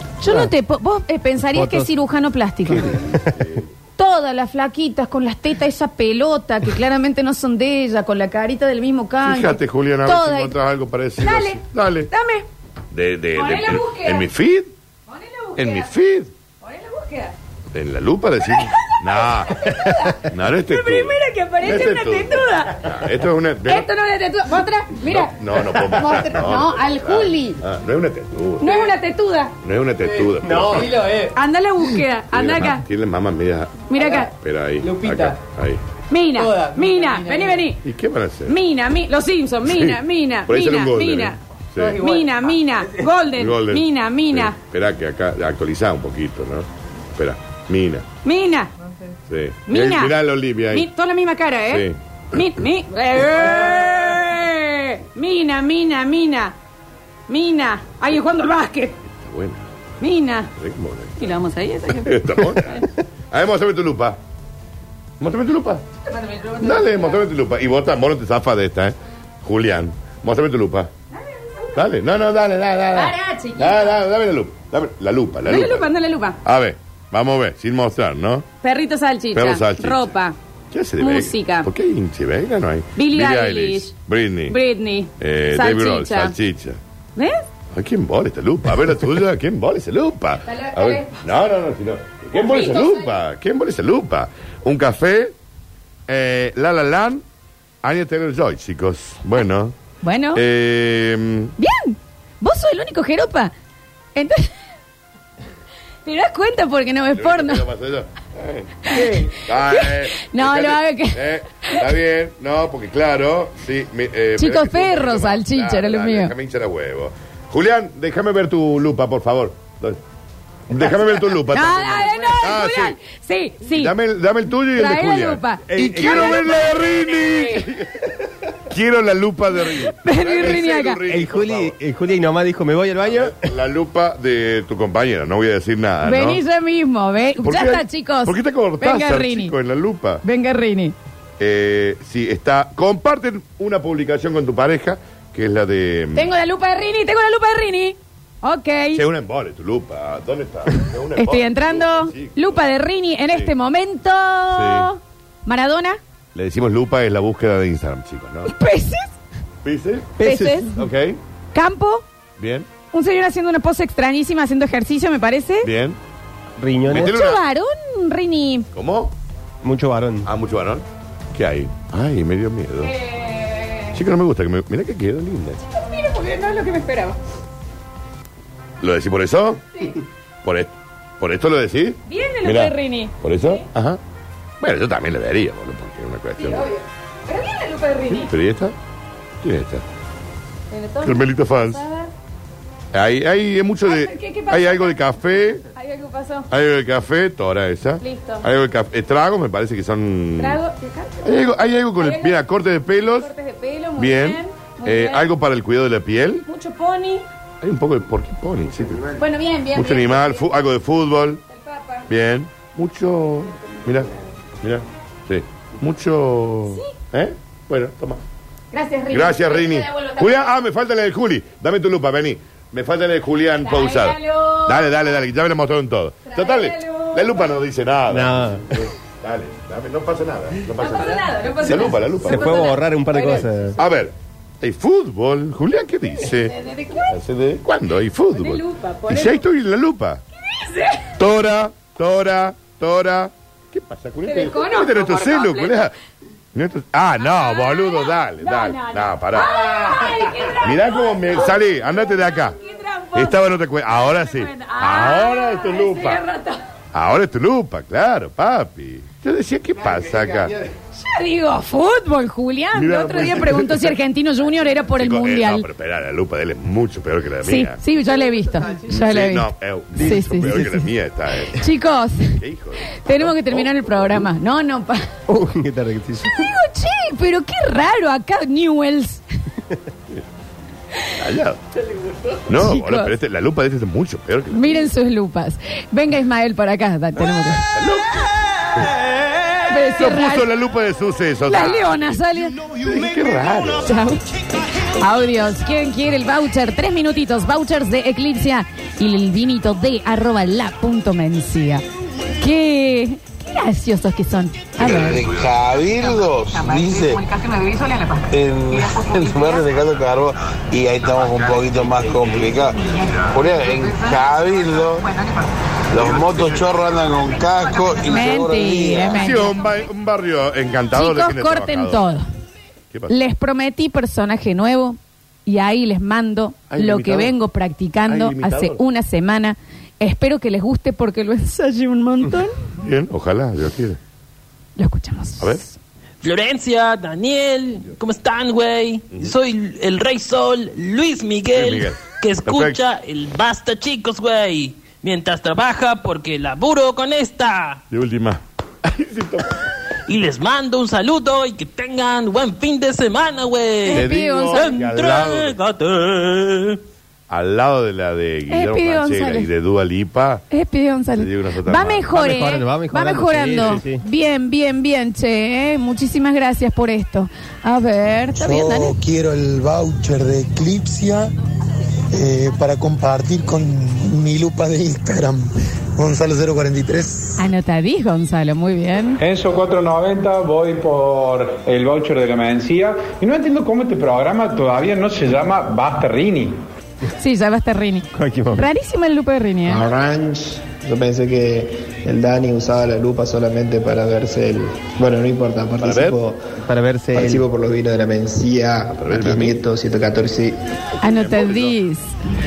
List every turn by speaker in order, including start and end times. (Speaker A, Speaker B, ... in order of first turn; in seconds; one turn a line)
Speaker A: 0.2-3.0
Speaker B: 0.2-0.5
Speaker B: 1.5-1.9
Speaker C: 2.7-3.7
Speaker B: 3.0-3.4
Speaker A: 4.0-10.5
Speaker C: 9.2-12.1
Speaker A: 11.2-12.4
Speaker C: 12.9-14.7
Speaker A: 13.3-14.3
Speaker A: 15.1-15.9
Speaker C: 15.6-16.3
Speaker A: 16.6-17.3
Speaker C: 17.7-23.9
Speaker A: 18.4-22.9
Speaker A: 23.6-27.6
Speaker C: 25.0-28.9
Speaker A: 28.6-29.5
Speaker C: 29.6-31.0
Speaker B: 30.4-31.3
Speaker A: 31.3-32.8
Speaker C: 32.3-35.8
Speaker A: 33.9-34.3
Speaker A: 36.1-37.8
Speaker C: 37.8-38.5
Speaker A: 38.5-44.6
Speaker C: 40.5-42.1
Speaker C: 43.3-48.0
Speaker A: 48.2-48.7
Speaker C: 49.3-50.9
Speaker A: 49.7-50.1
Speaker A: 50.7-56.5
Speaker C: 51.7-52.0
Speaker A: 57.3-59.0
Speaker C: 59.1-59.6
Speaker A: 60.0-60.5
Speaker C: 60.5-61.4
Speaker A: 61.2-62.9
Speaker C: 61.9-64.2
Speaker C: 65.2-65.8
Speaker A: 66.0-67.2
Speaker C: 66.6-70.9
Speaker A: 71.1-71.8
Speaker C: 71.7-75.9
Speaker A: 72.9-74.0
Speaker A: 75.5-76.4
Speaker C: 76.4-78.5
Speaker A: 78.6-80.3
Speaker C: 79.3-80.1
Speaker C: 80.7-84.6
Speaker A: 81.0-81.7
Speaker A: 83.0-83.9
Speaker A: 84.5-86.3
Speaker C: 85.2-86.8
Speaker C: 87.7-95.3
Speaker A: 90.4-91.2
Speaker A: 92.3-93.1
Speaker C: 96.1-97.2
Speaker C: 97.8-99.7
Speaker A: 100.0-100.4
Speaker C: 100.3-101.5
Speaker A: 101.6-103.5
Speaker A: 104.1-104.5
Speaker A: 106.0-107.6
Speaker C: 107.1-120.0
Speaker A: 108.8-111.8
Speaker A: 114.4-116.3
Speaker C: 120.7-123.0
Speaker A: 120.8-123.9
Speaker C: 123.7-128.2
Speaker A: 124.7-127.7
Speaker B: 125.7-126.5
Speaker C: 128.7-131.8
Speaker A: 129.8-131.0
Speaker B: 131.1-133.5
Speaker C: 133.0-136.4
Speaker A: 136.0-139.5
Speaker C: 137.4-140.2
Speaker A: 140.2-140.9
Speaker C: 141.4-146.3
Speaker A: 146.1-149.0
Speaker C: 148.9-152.6
Speaker A: 151.2-156.0
Speaker C: 154.5-154.9
Speaker C: 156.3-158.5
Speaker A: 158.4-159.1
Speaker C: 159.6-160.2
Speaker B: 160.2-160.7
Speaker A: 160.2-160.7
Speaker C: 160.7-161.2
Speaker A: 161.5-162.0
Speaker C: 162.4-162.7
Speaker A: 162.9-165.7
Speaker C: 165.6-166.0
Speaker B: 166.6-167.1
Speaker C: 166.9-167.4
Speaker A: 166.9-168.7
Speaker C: 168.7-169.1
Speaker B: 169.6-170.3
Speaker C: 170.2-172.9
Speaker A: 172.8-174.0
Speaker C: 173.9-175.6
Speaker A: 175.7-177.2
Speaker C: 178.8-179.7
Speaker C: 180.4-184.0
Speaker A: 182.1-183.6
Speaker C: 184.6-186.7
Speaker A: 186.4-188.3
Speaker C: 188.1-188.7
Speaker C: 189.4-189.8
Speaker A: 190.7-192.1
Speaker C: 191.0-191.8
Speaker C: 192.9-195.6
Speaker A: 193.8-196.5
Speaker C: 196.5-200.6
Speaker A: 198.0-198.4
Speaker A: 200.4-201.4
Speaker C: 201.2-203.3
Speaker A: 202.0-202.4
Speaker A: 203.2-205.3
Speaker C: 204.0-206.4
Speaker A: 206.4-207.2
Speaker C: 207.6-209.1
Speaker A: 209.2-210.5
Speaker C: 209.7-211.4
Speaker A: 211.5-212.1
Speaker C: 212.1-214.1
Speaker C: 214.6-218.2
Speaker A: 218.7-220.4
Speaker C: 219.1-232.8
Speaker A: 223.6-225.0
Speaker A: 226.2-227.5
Speaker B: 228.1-228.8
Speaker A: 230.8-233.7
Speaker B: 232.2-233.8
Speaker C: 233.8-236.5
Speaker A: 236.3-237.1
Speaker C: 237.1-240.2
Speaker A: 238.3-239.4
Speaker A: 240.4-241.1
Speaker C: 241.2-245.9
Speaker A: 244.2-245.9
Speaker C: 246.5-252.6
Speaker A: 247.2-256.6
Speaker C: 253.1-256.2
Speaker C: 256.9-260.6
Speaker A: 260.9-265.6
Speaker C: 262.7-263.9
Speaker C: 264.9-267.8
Speaker A: 267.4-270.9
Speaker C: 268.9-271.7
Speaker A: 271.4-272.4
Speaker C: 272.4-274.3
Speaker A: 273.0-275.1
Speaker B: 275.3-276.5
Speaker A: 276.2-279.2
Speaker C: 281.1-281.6
Speaker C: 282.5-284.9
Speaker A: 282.5-283.1
Speaker A: 284.5-287.7
Speaker C: 287.2-288.9
Speaker A: 289.6-290.5
Speaker C: 289.9-294.0
Speaker A: 291.5-292.6
Speaker A: 293.8-294.2
Speaker A: 294.8-301.8
Speaker A: 302.4-305.3
Speaker D: 304.8-307.2
Speaker A: 305.8-309.7
Speaker D: 308.3-315.1
Speaker A: 312.7-315.5
Speaker D: 315.9-319.3
Speaker C: 316.1-316.6
Speaker A: 317.3-319.7
Speaker C: 319.2-322.0
Speaker A: 320.9-322.2
Speaker A: 323.1-332.5
Speaker C: 326.7-327.3
Speaker C: 328.1-328.8
Speaker C: 332.8-334.0
Speaker A: 334.8-335.8
Speaker E: 336.2-347.8
Speaker C: 341.5-342.8
Speaker C: 347.9-349.6
Speaker E: 350.1-356.8
Speaker A: 353.8-354.8
Speaker C: 353.9-355.6
Speaker C: 357.3-360.4
Speaker A: 358.5-359.5
Speaker A: 360.5-368.9
Speaker C: 361.1-362.1
Speaker B: 362.1-364.0
Speaker F: 368.4-371.3
Speaker F: 372.1-377.4
Speaker A: 377.4-379.2
Speaker G: 379.2-386.6
Speaker A: 387.2-389.8
Speaker B: 388.1-388.7
Speaker H: 389.7-396.6
Speaker C: 395.8-396.2
Speaker B: 396.6-397.4
Speaker H: 397.1-400.6
Speaker C: 398.9-399.6
Speaker A: 401.0-402.1
Speaker C: 401.0-401.7